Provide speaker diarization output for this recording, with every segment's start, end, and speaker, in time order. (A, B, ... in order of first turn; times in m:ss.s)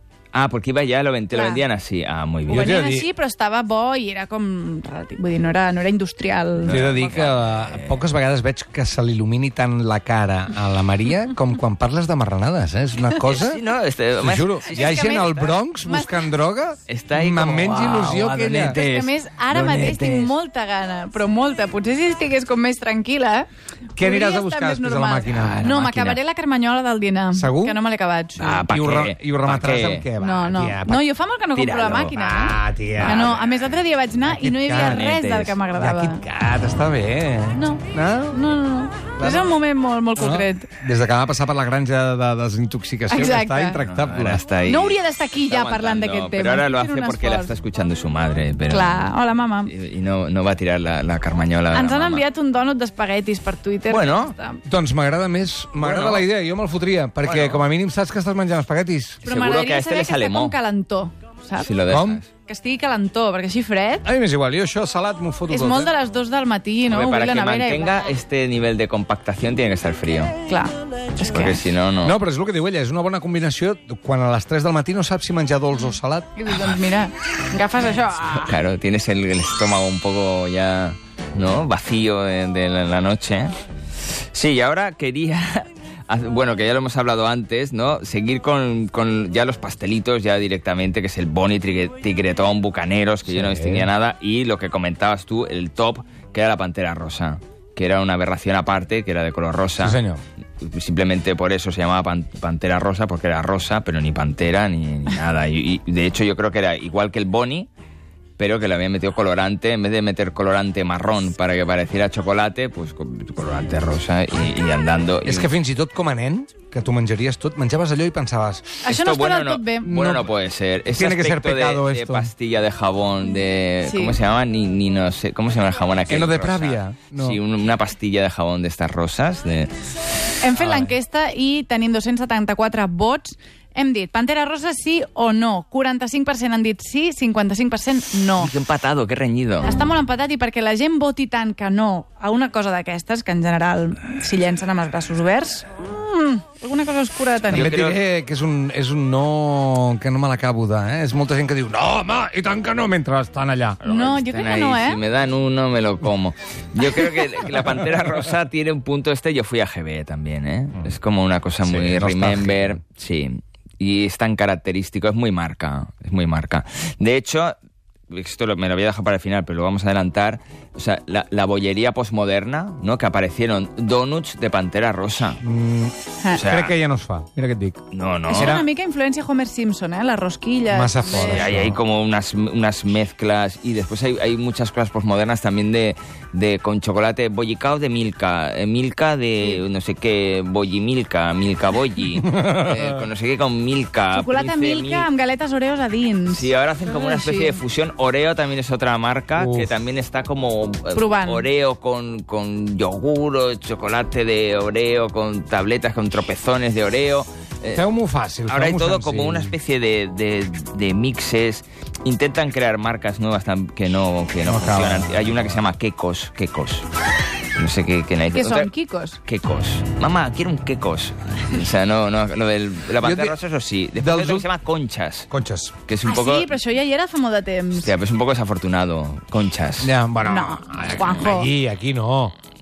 0:00.3-0:02.7 A
0:01.3-0:01.6 B
0:02.5-0:03.1 C
0:02.5-0:06.9 B
0:06.6-0:08.0 A
0:06.7-0:13.6 C
0:13.2-0:15.4 A
0:14.2-0:18.8 C
0:14.7-0:16.3 B
0:16.9-0:20.4 A
0:18.7-0:28.6 B
0:24.0-0:26.2 C
0:25.3-0:26.2 A
0:27.3-0:27.8 C
0:28.4-0:30.1 A
0:28.7-0:31.0 C
0:30.2-0:36.2 B
0:31.6-0:32.2 A
0:32.1-0:33.3 C
0:33.0-0:33.5 A
0:34.3-0:35.1 C
0:34.7-0:35.6 A
0:35.8-0:38.5 C
0:37.5-0:40.7 B
0:39.2-0:39.6 C
0:40.2-0:44.4 C
0:43.1-0:43.8 B
0:43.8-0:49.2 A
0:44.7-0:47.5 B
0:48.7-0:49.7 B
0:49.7-0:52.2 A
0:51.7-0:54.6 B
0:53.9-0:54.4 A
0:54.7-0:59.2 C
0:55.8-0:56.3 A
0:57.2-0:57.6 A
0:59.2-1:00.6 A
0:59.2-1:01.7 B
1:01.6-1:02.3 A
1:01.9-1:02.2 C
1:02.5-1:04.1 B
1:04.0-1:05.9 C
1:05.5-1:08.0 B
1:06.9-1:10.4 A
1:10.5-1:11.6 B
1:11.2-1:12.2 A
1:12.0-1:16.3 C
1:16.4-1:18.5 B
1:18.3-1:23.6 A
1:24.3-1:40.0 A
1:33.2-1:33.9 C
1:39.8-1:40.2 C
1:40.6-1:47.7 A
1:48.4-1:55.5 A
1:55.2-1:58.8 C
1:58.8-2:00.0 B
1:58.8-2:09.7 A
1:59.8-2:00.3 C
2:00.9-2:02.3 C
2:03.8-2:04.2 B
2:06.1-2:07.4 C
2:10.4-2:18.5 B
2:10.6-2:10.9 C
2:18.4-2:19.7 A
2:19.6-2:27.7 B
2:27.5-2:28.0 A
2:27.5-2:33.8 C
2:33.8-2:47.6 A
2:33.8-2:35.0 B
2:41.6-2:42.8 C
2:48.1-2:55.4 A
2:55.4-2:58.7 C
2:56.3-2:56.8 A
2:57.9-2:58.6 A
2:58.3-3:01.6 B
3:00.7-3:01.8 C
3:01.1-3:15.1 A
3:12.2-3:13.0 C
3:14.1-3:17.6 B
3:16.3-3:27.8 A
3:19.4-3:19.7 C
3:21.0-3:21.5 B
3:27.7-3:29.6 C
3:28.5-3:36.9 A
3:34.4-3:35.6 C
3:37.6-3:38.7 A
3:38.3-3:39.2 B
3:39.2-3:45.3 A
3:43.0-3:43.4 C
3:44.0-3:44.5 C
3:45.3-3:45.8 C
3:45.9-3:46.5 A
3:46.0-3:47.9 B
3:47.7-3:49.9 A
3:49.8-3:52.3 C
3:50.2-3:51.5 B